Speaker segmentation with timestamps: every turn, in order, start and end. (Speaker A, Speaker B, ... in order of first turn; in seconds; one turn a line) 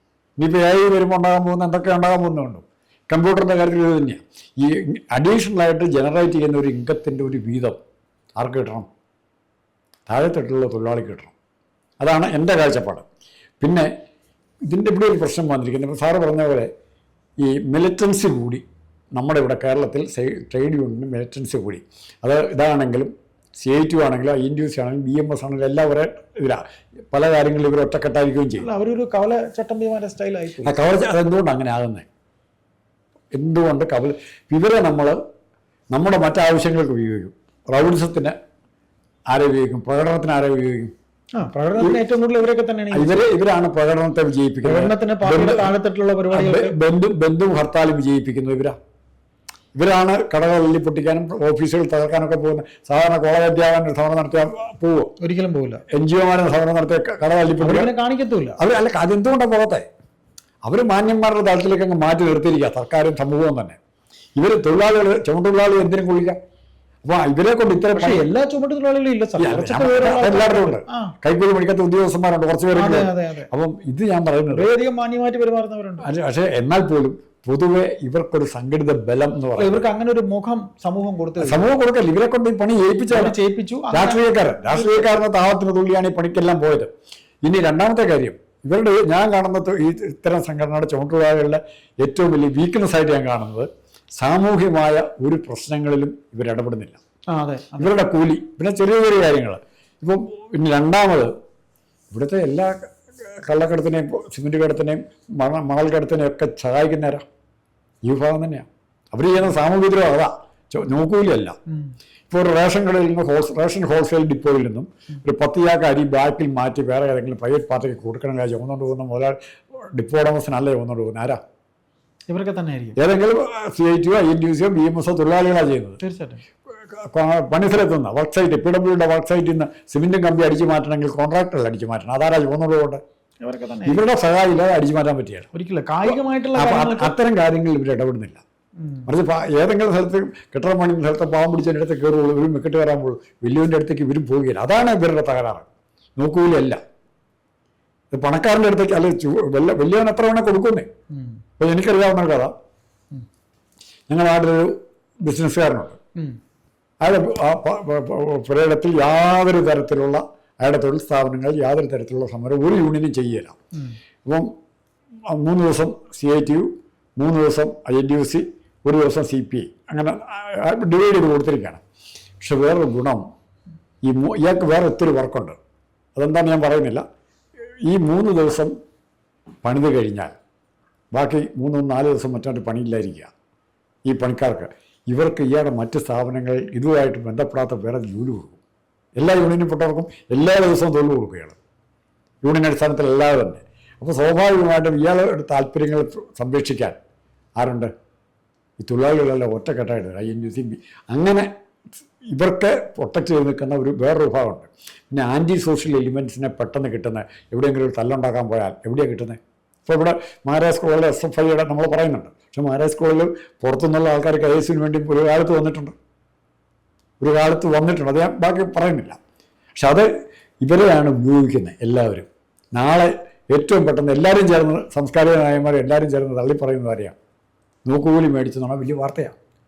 Speaker A: 0.4-7.8
Speaker A: 8.4-8.9
Speaker A: 10.1-11.3
Speaker A: 12.0-13.1
Speaker A: 13.6-13.9
Speaker A: 14.7-16.7
Speaker A: 17.4-18.6
Speaker A: 19.1-28.7
Speaker B: 28.6-30.8
Speaker A: 30.6-32.0
Speaker A: 33.3-35.2
Speaker A: 35.9-38.3
Speaker A: 39.3-40.9
Speaker B: 41.4-43.3
Speaker A: 42.9-45.7
Speaker B: 44.6-46.8
Speaker A: 46.3-48.8
Speaker A: 49.7-55.1
Speaker B: 55.2-55.8
Speaker A: 55.9-57.9
Speaker B: 57.6-58.6
Speaker A: 58.6-59.9
Speaker A: 60.6-63.8
Speaker A: 64.4-66.4
Speaker A: 67.0-68.2
Speaker B: 67.9-71.1
Speaker A: 69.4-74.7
Speaker B: 72.7-73.5
Speaker B: 74.5-76.1
Speaker A: 76.0-79.8
Speaker B: 79.6-81.7
Speaker A: 81.4-83.3
Speaker B: 83.1-85.1
Speaker A: 83.9-86.9
Speaker A: 87.4-97.0
Speaker B: 97.3-97.9
Speaker A: 97.8-101.3
Speaker A: 102.1-107.2
Speaker A: 108.0-111.5
Speaker B: 111.7-111.9
Speaker A: 112.3-121.4
Speaker B: 122.3-123.0
Speaker A: 123.0-126.0
Speaker B: 126.0-126.4
Speaker A: 126.9-133.0
Speaker B: 133.4-134.0
Speaker A: 133.8-135.5
Speaker B: 135.5-137.1
Speaker A: 136.0-138.4
Speaker B: 138.8-139.1
Speaker A: 139.1-146.8
Speaker A: 148.1-150.9
Speaker B: 151.1-151.4
Speaker A: 151.6-152.5
Speaker A: 154.1-156.0
Speaker A: 157.0-163.6
Speaker B: 163.7-164.0
Speaker A: 164.2-164.5
Speaker A: 165.3-171.8
Speaker A: 172.4-173.3
Speaker A: 174.1-175.6
Speaker A: 176.2-177.0
Speaker A: 177.8-178.7
Speaker A: 179.6-180.3
Speaker A: 181.1-183.3
Speaker A: 184.1-188.6
Speaker A: 189.2-191.6
Speaker A: 192.4-197.0
Speaker A: 197.6-197.9
Speaker A: 198.8-201.5
Speaker A: 202.3-215.9
Speaker A: 217.2-219.2
Speaker A: 219.8-220.1
Speaker A: 220.6-227.1
Speaker A: 227.8-229.3